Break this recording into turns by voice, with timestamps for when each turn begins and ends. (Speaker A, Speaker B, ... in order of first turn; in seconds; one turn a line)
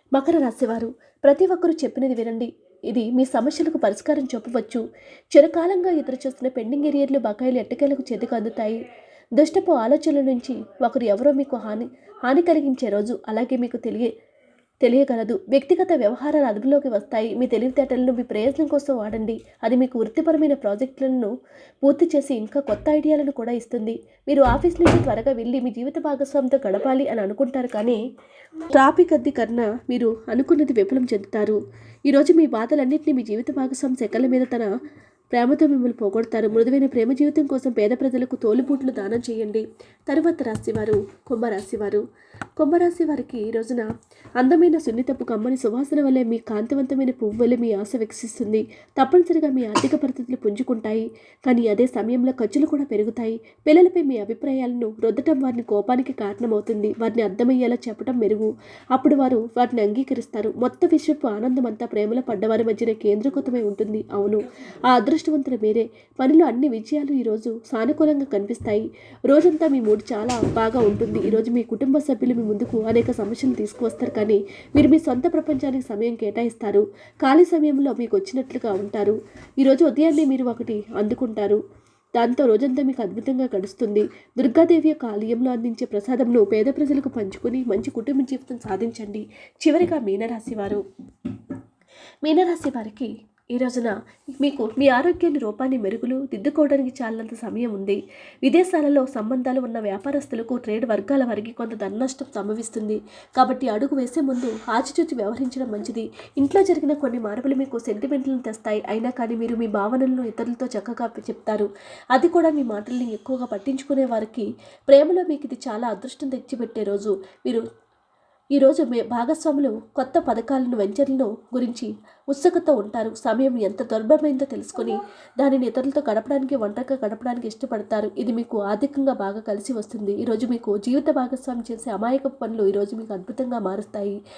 Speaker A: 0.1-8.8
Speaker A: 9.4-14.1
Speaker A: 14.8-21.3
Speaker A: 21.8-28.0
Speaker A: 28.7-34.7
Speaker A: 35.3-42.0
Speaker A: 42.6-43.9
Speaker A: 44.4-81.6
Speaker A: 82.2-90.8
Speaker A: 92.2-117.6
Speaker A: 118.6-134.2